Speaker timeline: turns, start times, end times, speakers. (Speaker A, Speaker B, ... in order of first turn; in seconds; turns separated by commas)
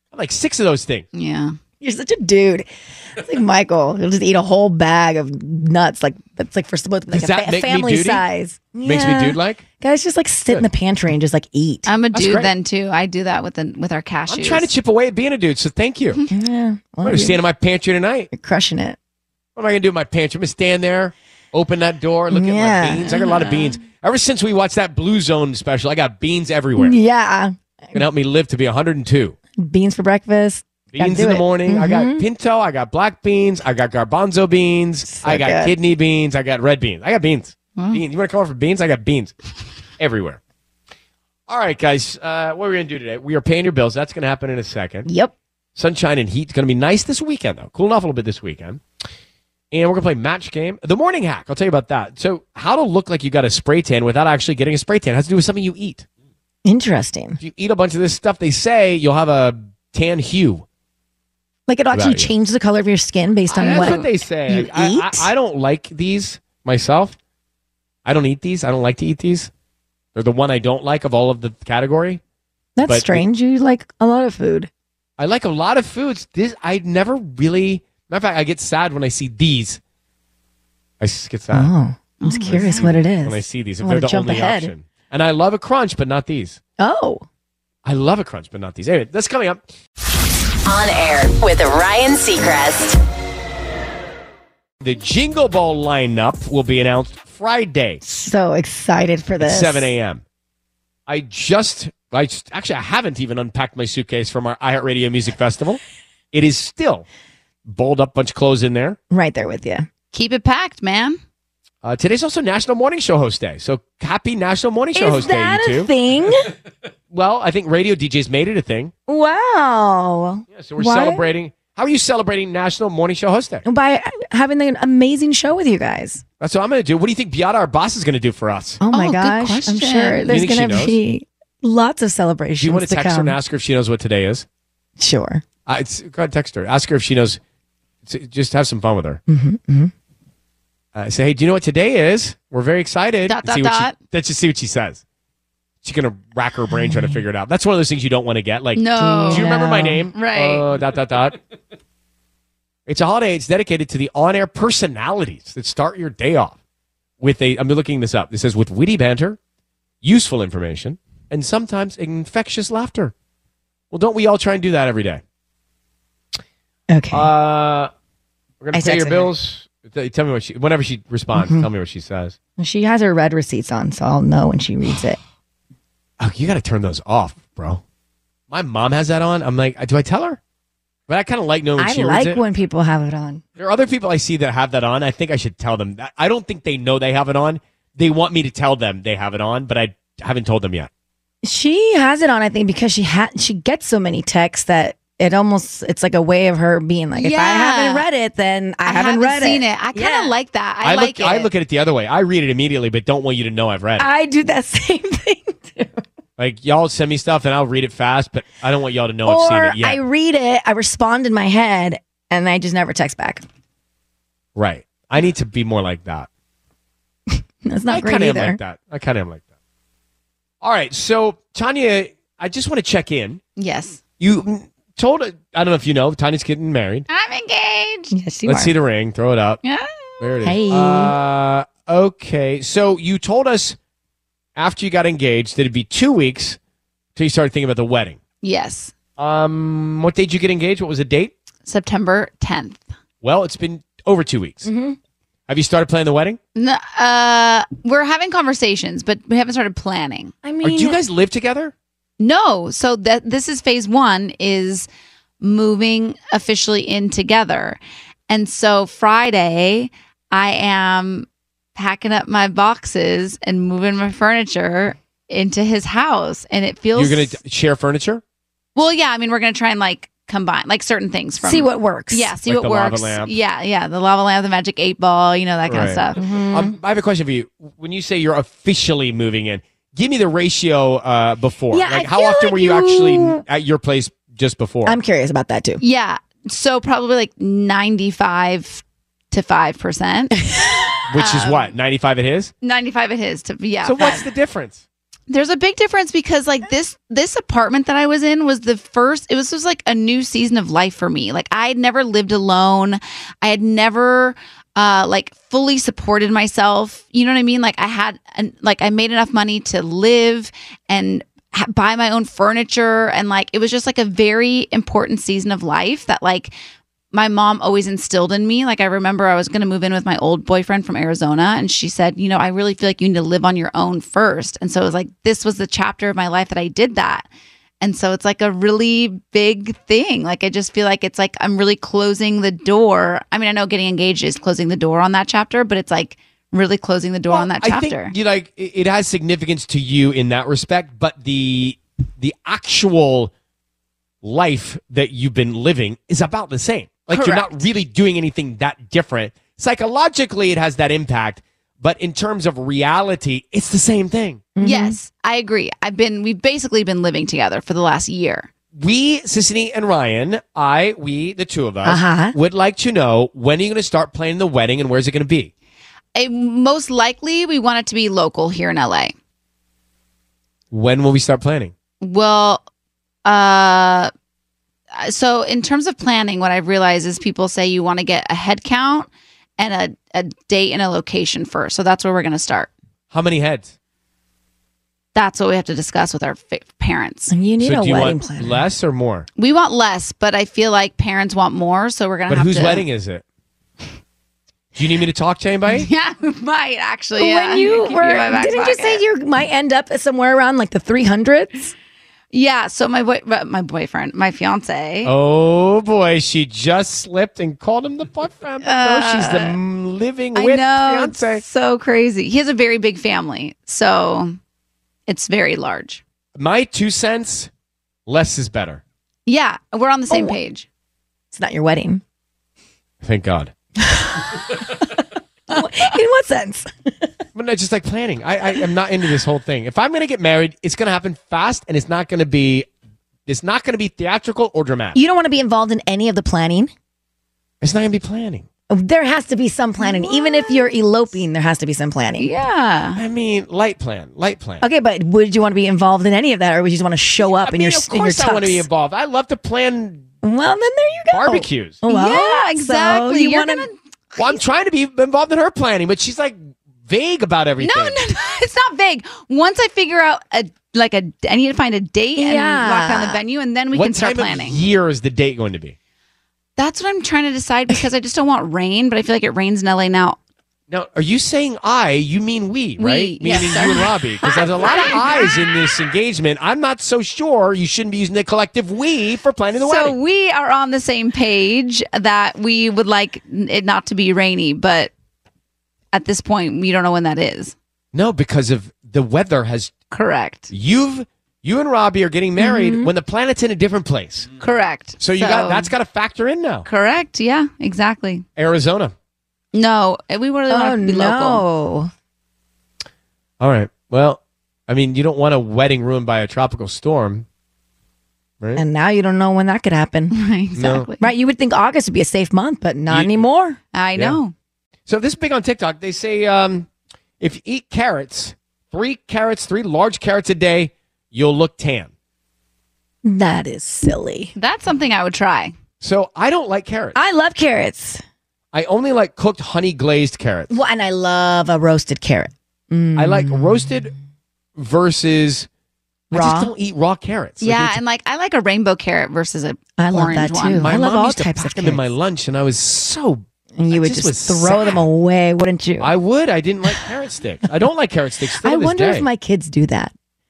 Speaker A: 0.1-1.1, Speaker B: 1.1-1.6, Speaker C: 1.8-11.9, Speaker A: 7.1-8.2, Speaker A: 8.8-9.6, Speaker B: 11.9-14.7, Speaker A: 12.1-12.5, Speaker A: 14.3-16.2, Speaker C: 16.3-17.4, Speaker A: 17.0-18.3, Speaker C: 18.3-19.0, Speaker A: 19.6-27.0, Speaker C: 22.3-23.6, Speaker C: 26.8-28.0, Speaker A: 27.9-29.4, Speaker C: 29.6-32.2, Speaker A: 30.9-39.4, Speaker C: 35.1-35.8, Speaker A: 40.0-40.4, Speaker A: 41.5-45.1, Speaker C: 45.0-45.3, Speaker A: 45.8-48.8, Speaker A: 49.7-56.0, Speaker C: 56.6-57.4, Speaker A: 57.4-60.6, Speaker C: 61.7-65.3, Speaker A: 61.9-62.3, Speaker A: 63.5-67.2, Speaker A: 68.0-69.5, Speaker A: 70.2-72.2, Speaker C: 72.8-74.7, Speaker A: 72.8-73.2, Speaker A: 75.2-79.8, Speaker A: 81.0-81.7, Speaker C: 81.5-84.7, Speaker B: 82.2-82.9, Speaker A: 82.5-86.6, Speaker C: 86.8-87.2, Speaker A: 87.8-89.6, Speaker D: 90.7-93.0, Speaker A: 94.8-98.0, Speaker C: 98.0-99.9, Speaker A: 99.4-100.2, Speaker A: 101.1-105.8, Speaker A: 106.3-107.1, Speaker A: 107.7-109.0, Speaker C: 109.1-109.9, Speaker B: 110.1-111.2, Speaker A: 111.8-115.9, Speaker C: 115.0-116.5, Speaker A: 117.1-118.9, Speaker C: 119.1-121.2, Speaker A: 120.5-123.6, Speaker C: 123.7-126.2, Speaker A: 126.4-128.8, Speaker C: 128.8-133.4, Speaker B: 128.9-130.4, Speaker A: 130.3-131.0, Speaker A: 132.6-134.5, Speaker C: 135.0-135.4, Speaker A: 135.7-137.4, Speaker A: 138.1-139.2, Speaker C: 139.3-139.9, Speaker A: 140.9-145.0, Speaker B: 143.3-144.0, Speaker A: 145.8-151.4, Speaker C: 146.7-147.2, Speaker B: 148.8-150.7, Speaker C: 149.0-150.1, Speaker A: 152.9-156.6, Speaker A: 157.2-159.4, Speaker A: 160.0-163.1, Speaker A: 163.9-165.2, Speaker C: 166.9-167.3, Speaker A: 167.1-167.9, Speaker A: 168.6-172.4, Speaker C: 168.7-169.3, Speaker C: 171.3-171.7, Speaker C: 172.6-175.2, Speaker A: 176.2-177.8, Speaker A: 178.5-180.4, Speaker A: 181.1-182.4, Speaker C: 181.8-183.4, Speaker A: 183.6-190.9, Speaker C: 191.4-200.3, Speaker B: 197.2-198.1, Speaker B: 198.8-201.5, Speaker A: 200.8-204.1, Speaker C: 204.0-206.0, Speaker A: 206.4-210.0, Speaker C: 209.2-213.4, Speaker A: 214.6-216.3, Speaker C: 217.6-218.6, Speaker A: 217.9-219.4, Speaker A: 220.6-223.4, Speaker B: 223.6-224.0, Speaker A: 224.2-227.1, Speaker B: 227.1-228.1, Speaker C: 228.1-228.7, Speaker A: 228.5-229.6, Speaker B: 229.6-230.2, Speaker A: 230.2-233.8, Speaker C: 230.4-231.2, Speaker A: 234.6-236.6, Speaker A: 237.2-238.2, Speaker B: 238.4-238.9, Speaker A: 239.2-241.3, Speaker B: 241.7-242.8, Speaker A: 243.2-244.7, Speaker C: 244.7-245.0, Speaker A: 245.5-246.4, Speaker B: 246.6-250.3, Speaker C: 250.4-251.0, Speaker A: 250.6-251.7, Speaker B: 252.2-254.9, Speaker B: 255.4-267.4, Speaker A: 266.9-268.2, Speaker B: 268.8-276.2, Speaker C: 271.4-272.3, Speaker A: 272.5-273.3, Speaker A: 275.7-285.0, Speaker C: 276.2-276.8, Speaker C: 281.7-283.4, Speaker C: 284.9-285.8, Speaker B: 285.8-290.4, Speaker C: 290.5-290.9, Speaker A: 291.1-292.5, Speaker B: 291.1-291.7, Speaker B: 292.6-294.3, Speaker A: 293.8-294.8, Speaker B: 295.3-316.6, Speaker B: 317.1-327.3, Speaker B: 327.8-338.1, Speaker A: 337.3-343.3, Speaker A: 344.2-354.4, Speaker B: 347.1-347.6, Speaker C: 354.6-355.0, Speaker B: 354.6-358.5, Speaker A: 358.8-365.5, Speaker C: 361.8-362.4, Speaker B: 366.1-369.1, Speaker A: 370.7-371.7, Speaker B: 372.0-372.6, Speaker B: 373.2-374.1, Speaker B: 374.9-382.7, Speaker A: 383.1-383.7, Speaker B: 385.1-387.3, Speaker C: 387.3-388.6, Speaker A: 387.6-389.3, Speaker B: 389.4-392.8, Speaker A: 392.3-393.2, Speaker A: 394.8-395.9, Speaker B: 395.7-399.0, Speaker C: 397.2-401.7, Speaker B: 402.3-405.1, Speaker A: 405.0-411.4, Speaker B: 408.6-409.6, Speaker B: 410.4-414.4, Speaker B: 415.1-416.0, Speaker A: 416.4-417.5, Speaker A: 418.1-418.8, Speaker B: 419.3-420.7, Speaker C: 420.1-420.4, Speaker C: 421.3-422.0, Speaker A: 423.0-423.5, Speaker C: 423.8-424.4, Speaker C: 425.5-426.7, Speaker A: 427.4-432.7, Speaker A: 433.3-435.0, Speaker C: 434.9-436.7, Speaker A: 437.6-438.5, Speaker C: 438.7-442.3, Speaker B: 439.8-440.6, Speaker B: 442.2-443.0, Speaker A: 443.0-444.6, Speaker C: 444.6-448.7, Speaker A: 447.4-450.1, Speaker C: 450.2-453.7, Speaker A: 451.1-451.8, Speaker B: 451.9-454.4, Speaker A: 454.2-458.0, Speaker B: 457.6-464.6, Speaker C: 462.2-463.2, Speaker A: 463.7-465.8, Speaker B: 466.6-470.2, Speaker A: 470.7-480.0, Speaker B: 472.8-475.3, Speaker B: 479.6-484.9, Speaker B: 485.9-487.6, Speaker A: 487.9-489.7, Speaker B: 489.9-490.5, Speaker A: 490.5-494.3, Speaker C: 492.4-492.9, Speaker B: 494.4-495.7, Speaker A: 495.0-496.7, Speaker B: 496.7-498.2, Speaker A: 498.4-498.9, Speaker B: 499.5-501.4, Speaker C: 500.5-501.9, Speaker A: 503.4-507.3, Speaker C: 508.6-510.1, Speaker B: 510.1-511.1, Speaker A: 510.6-510.9, Speaker C: 511.0-513.6, Speaker A: 512.9-513.2, Speaker B: 513.7-514.3, Speaker A: 514.9-516.7, Speaker A: 517.2-521.9, Speaker C: 523.0-524.3, Speaker B: 524.4-525.5, Speaker A: 525.8-527.0, Speaker C: 526.9-528.0, Speaker A: 528.5-530.5, Speaker C: 530.5-533.9, Speaker A: 533.0-533.9, Speaker A: 534.6-535.5, Speaker C: 536.1-536.5, Speaker A: 536.1-537.8, Speaker B: 537.4-540.7, Speaker C: 539.8-541.9, Speaker A: 540.6-544.8, Speaker C: 543.6-545.9, Speaker A: 545.8-549.1, Speaker C: 548.4-549.9